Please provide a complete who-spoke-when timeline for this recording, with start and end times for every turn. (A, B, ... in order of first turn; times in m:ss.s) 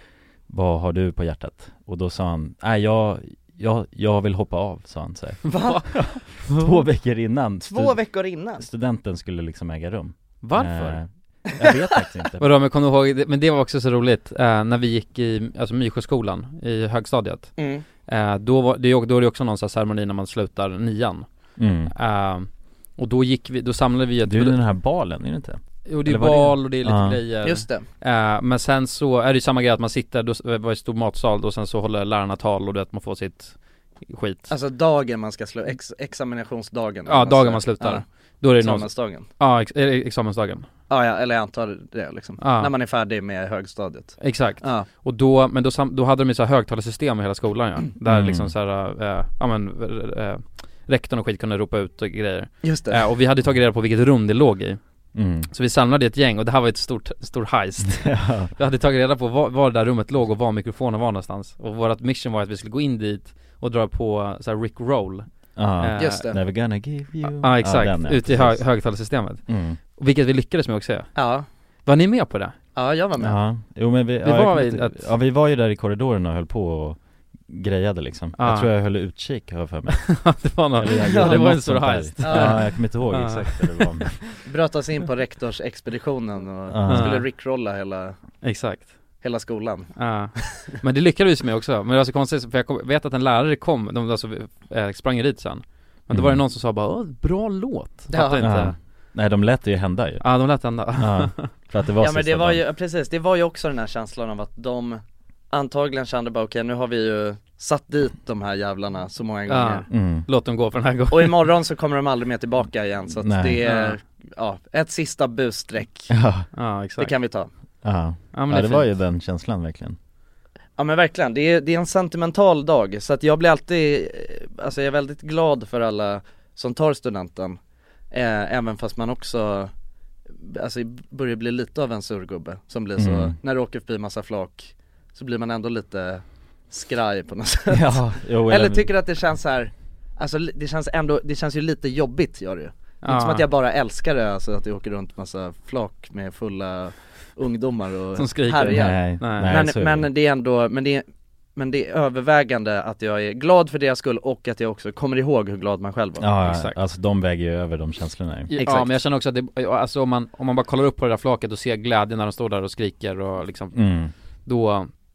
0:00.5-0:08.0 A
0:05.4-0:06.0 B
0:05.6-0:05.9 C
0:07.7-0:08.6 B
0:08.6-0:12.5 A
0:10.4-0:11.0 C
0:12.4-0:17.5 C
0:17.6-0:17.8 B
0:18.1-0:21.3 C
0:21.6-0:21.9 A
0:21.9-0:24.6 C
0:24.3-0:27.2 A
0:25.9-0:34.5 C
0:27.4-0:27.8 B
0:34.5-0:38.0 B
0:37.1-0:40.7 C
0:38.6-0:39.2 B
0:40.9-0:44.9 B
0:42.4-0:42.7 C
0:44.2-0:54.8 C
0:48.1-0:48.5 A
0:52.6-0:53.0 B
0:55.2-0:55.5 A
0:55.5-1:05.3 C
0:58.0-0:58.5 A
1:05.6-1:08.6 A
1:05.8-1:06.3 C
1:06.0-1:06.4 B
1:07.4-1:11.2 C
1:09.5-1:09.8 A
1:11.2-1:11.5 B
1:11.9-1:12.6 C
1:12.8-1:13.4 B
1:13.2-1:20.1 A
1:14.2-1:15.1 C
1:18.4-1:18.7 C
1:19.9-1:24.4 C
1:20.8-1:24.2 A
1:21.1-1:21.4 B
1:22.2-1:22.6 B
1:24.5-1:28.2 B
1:26.7-1:27.1 A
1:26.9-1:27.3 C
1:28.4-1:29.0 C
1:29.2-1:29.9 B
1:30.0-1:38.8 C
1:36.1-1:36.4 A
1:38.1-1:38.5 B
1:38.4-1:40.2 A
1:40.2-1:41.5 C
1:41.0-1:42.6 A
1:42.0-1:49.9 B
1:49.5-1:51.4 C
1:49.9-1:50.3 A
1:51.1-1:56.1 B
1:53.2-1:53.6 A
1:53.6-1:54.0 C
1:56.1-1:56.5 A
1:56.5-1:57.1 C
1:57.0-1:57.5 B
1:57.8-2:00.0 A
1:58.3-1:58.9 C
2:00.8-2:07.6 B
2:08.1-2:09.7 B
2:10.4-2:31.0 B
2:13.0-2:13.4 A
2:17.7-2:18.9 A
2:23.0-2:23.5 C
2:28.2-2:29.5 C
2:28.7-2:30.1 A
2:31.6-2:36.3 B
2:36.2-2:38.5 A
2:36.4-2:36.8 C
2:38.5-2:43.8 C
2:38.6-2:39.0 B
2:43.7-2:44.1 A
2:44.5-2:44.9 C